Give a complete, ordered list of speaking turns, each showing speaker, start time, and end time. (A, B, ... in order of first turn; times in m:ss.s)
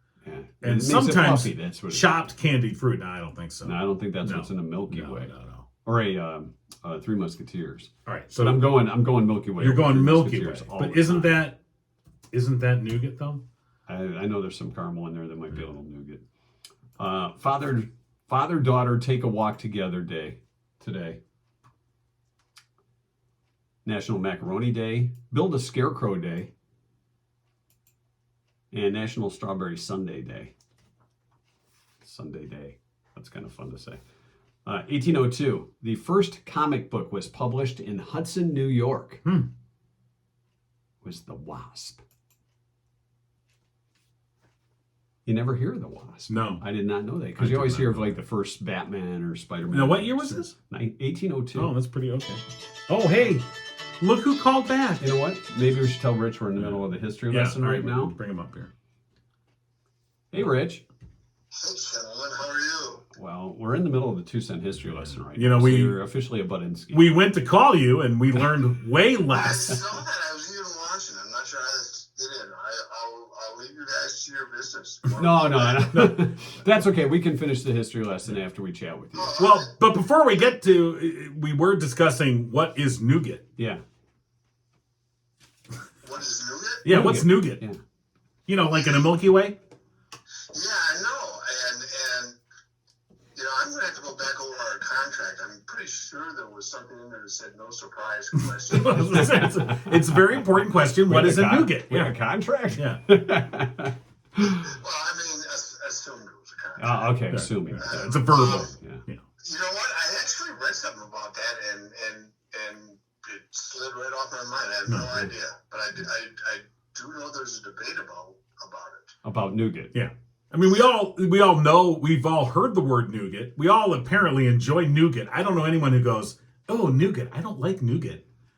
0:00.2-0:02.3 A
0:00.6-0:05.6 B
0:03.6-0:05.3 A
0:05.8-0:11.4 A
0:08.0-0:08.7 B
0:09.6-0:11.6 B
0:12.3-0:13.4 B
0:13.9-0:16.2 A
0:17.0-0:21.2 A
0:23.8-0:26.5 A
0:28.7-0:30.5 A
0:32.0-0:34.0 A
0:34.6-0:39.2 A
0:41.0-0:42.0 A
0:45.2-0:51.7 A
0:46.3-0:46.6 B
0:47.4-0:48.2 B
0:49.7-0:50.5 B
0:51.5-0:53.4 B
0:54.0-0:55.0 B
0:55.0-0:58.1 A
0:56.6-0:58.7 B
1:00.3-1:00.8 A
1:01.5-1:03.0 C
1:03.1-1:07.1 A
1:04.9-1:06.0 B
1:06.9-1:09.9 B
1:09.3-1:16.0 C
1:15.2-1:19.4 A
1:15.9-1:16.3 B
1:19.1-1:19.8 C
1:19.4-1:23.4 B
1:26.0-1:26.8 C
1:26.8-1:27.6 B
1:26.9-1:27.8 A
1:28.5-1:29.6 B
1:30.5-1:32.4 C
1:33.3-1:39.4 C
1:38.4-1:42.1 B
1:38.8-1:40.2 A
1:41.0-1:44.7 A
1:44.6-1:47.2 C
1:46.8-1:49.0 A
1:47.3-1:49.2 B
1:47.8-1:48.7 C
1:49.4-1:59.1 C
1:54.8-1:55.3 B
1:59.2-1:59.9 A
1:59.9-2:08.2 B